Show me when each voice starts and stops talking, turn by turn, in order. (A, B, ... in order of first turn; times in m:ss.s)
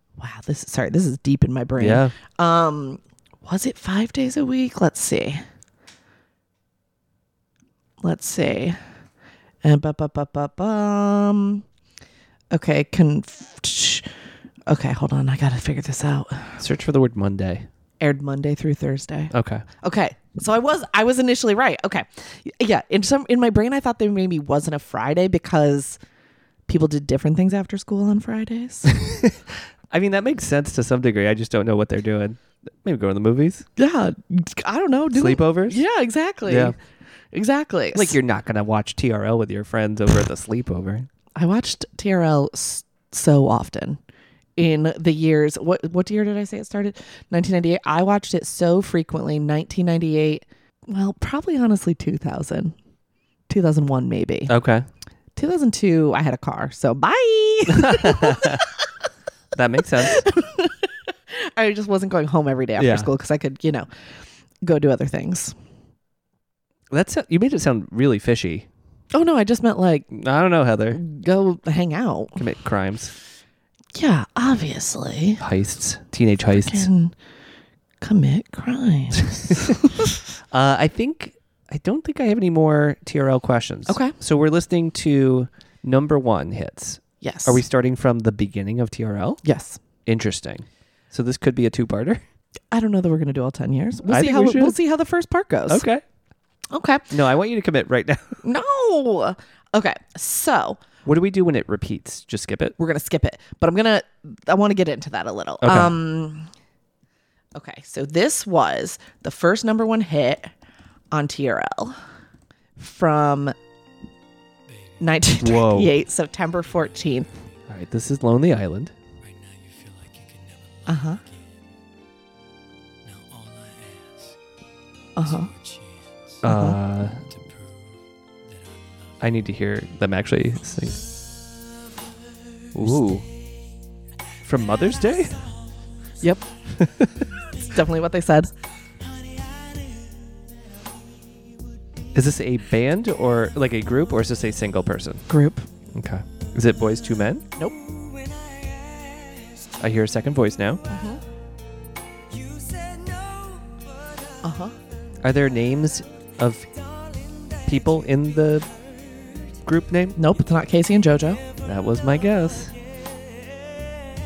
0:00.2-0:05.4 A
0:01.8-0:02.1 B
0:08.0-0:08.8 A
0:09.6-0:11.6 A
0:12.5-0:14.1 A
0:14.7-0:16.6 A
0:16.6-0:17.7 B
0:18.0-0:26.0 A
0:19.3-0:19.6 B
0:26.7-0:29.0 A
0:28.9-0:33.7 B
0:33.8-0:36.8 A
0:35.1-0:35.8 B
0:36.5-0:36.8 B
0:37.3-0:38.2 A
0:37.9-0:41.1 B
0:41.3-0:44.0 A
0:44.6-0:52.8 A
0:53.5-0:54.5 A
0:54.5-0:54.9 B
0:55.4-0:58.7 A
0:57.7-0:58.6 B
0:59.5-1:00.2 B
1:00.0-1:03.9 A
1:02.8-1:03.1 B
1:04.6-1:05.6 A
1:06.9-1:08.7 B
1:09.1-1:10.1 A
1:10.1-1:11.0 B
1:10.9-1:12.4 A
1:12.4-1:13.1 B
1:13.9-1:15.4 A
1:15.4-1:16.9 B
1:16.5-1:17.1 A
1:18.0-1:20.1 A
1:19.5-1:19.8 B
1:20.5-1:29.4 B
1:23.9-1:24.2 A
1:27.2-1:27.6 A
1:29.4-1:29.8 A
1:30.1-1:32.2 B
1:32.7-1:35.8 A
1:34.1-1:34.8 B
1:35.7-1:36.0 B
1:36.7-1:37.1 A
1:37.1-1:38.4 B
1:38.4-1:40.8 A
1:41.0-1:42.8 B
1:42.8-1:46.5 A
1:45.6-1:46.0 B
1:47.6-1:50.5 A
1:51.1-1:52.0 A
1:52.8-1:53.6 A
1:55.0-1:57.3 A
1:55.4-1:55.9 B
1:57.7-1:58.9 B
1:59.3-2:00.8 C
2:00.9-2:01.2 A
2:03.1-2:04.2 C
2:05.2-2:05.5 A
2:06.4-2:07.2 B
2:06.4-2:06.8 A
2:09.2-2:11.0 B
2:12.7-2:13.3 B
2:14.4-2:15.4 B
2:16.2-2:16.5 A
2:16.8-2:17.3 B
2:17.6-2:18.5 A
2:22.1-2:25.2 B
2:25.3-2:25.6 A
2:25.9-2:27.4 B
2:29.8-2:30.8 B
2:30.9-2:31.2 A
2:32.6-2:33.5 C
2:34.4-2:34.7 A
2:35.2-2:36.7 B
2:37.7-2:38.7 B
2:39.6-2:40.2 B
2:40.2-2:41.4 A
2:41.6-2:42.7 B